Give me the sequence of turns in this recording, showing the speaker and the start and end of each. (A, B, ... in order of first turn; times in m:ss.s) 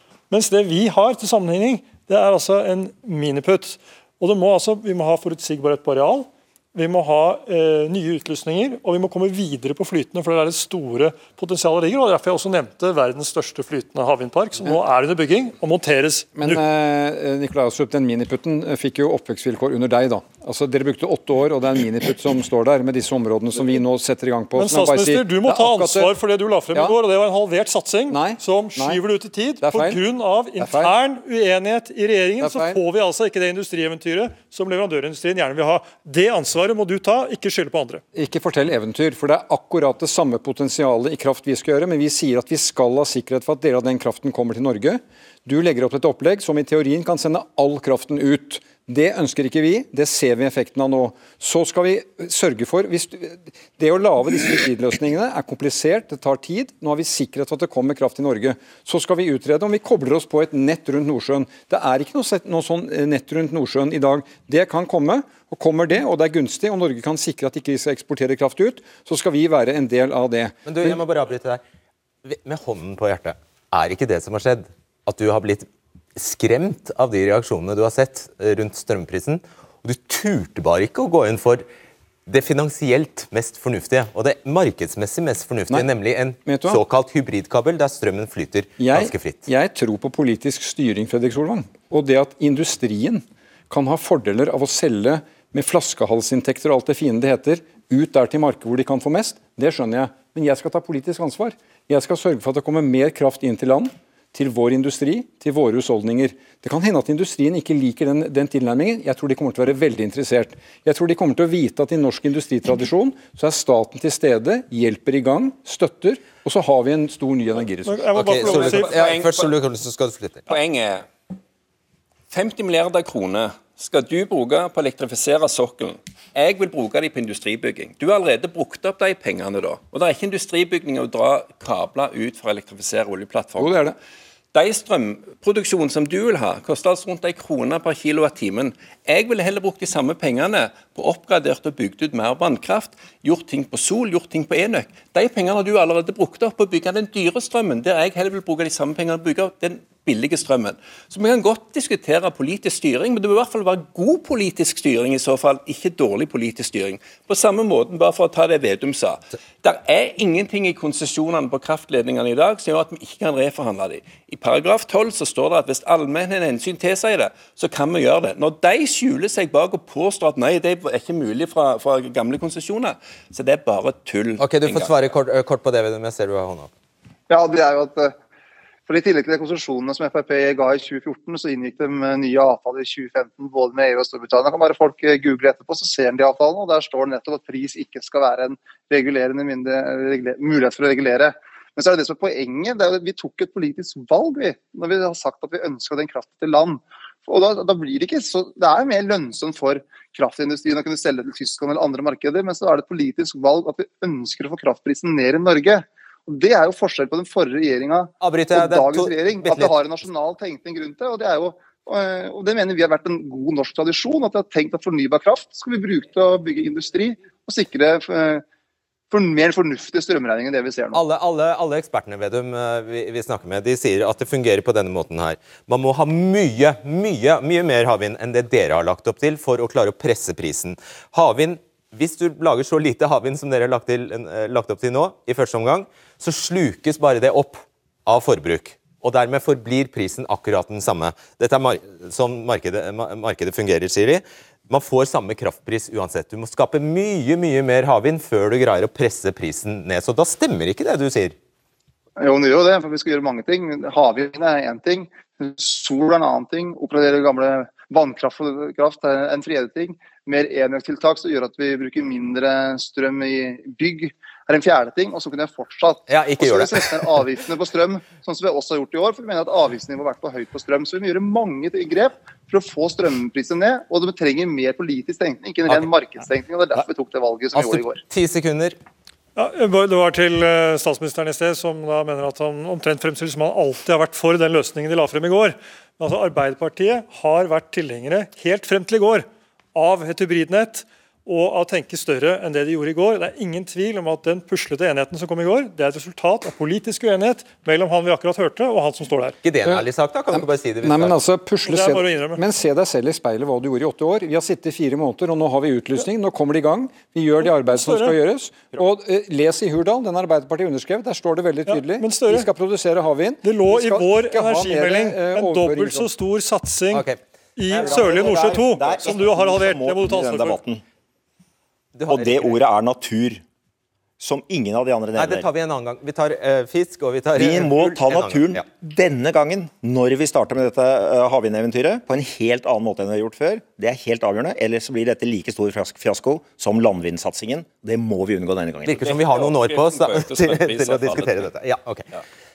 0:00.3-0:16.6 A
0:16.4-0:26.1 B
0:24.6-0:38.0 A
0:28.1-0:29.0 B
0:29.6-0:30.0 B
0:30.6-0:31.0 B
0:32.4-0:32.8 B
0:38.1-1:11.0 B
1:10.7-1:11.6 C
1:12.2-1:21.6 C
1:22.3-1:29.5 C
1:26.4-1:26.8 B
1:28.8-1:58.1 B
1:57.8-1:59.0 A
1:58.1-2:00.5 C
1:58.3-1:59.5 D
2:00.5-2:01.1 D
2:02.3-2:13.7 D
2:13.6-2:14.0 B
2:14.5-2:54.9 D
2:54.4-2:56.7 C
2:57.3-2:58.2 E
2:58.9-3:38.4 E
3:28.2-3:29.8 C
3:39.1-3:41.0 E
3:40.9-4:11.4 C
4:12.2-4:38.0 E
4:26.1-4:27.3 C
4:37.5-4:38.8 C
4:39.4-4:59.4 A
4:59.4-5:01.2 C
4:59.6-5:16.1 B
5:01.7-5:02.4 A
5:07.4-5:08.2 A
5:11.7-5:12.5 A
5:13.4-5:20.6 A
5:16.9-5:19.4 C
5:17.8-5:20.8 F
5:22.0-5:22.6 C
5:22.1-5:23.4 F
5:24.2-5:25.5 F
5:25.2-5:28.6 C
5:27.4-5:39.1 F
5:38.9-5:42.1 C
5:39.0-5:41.5 D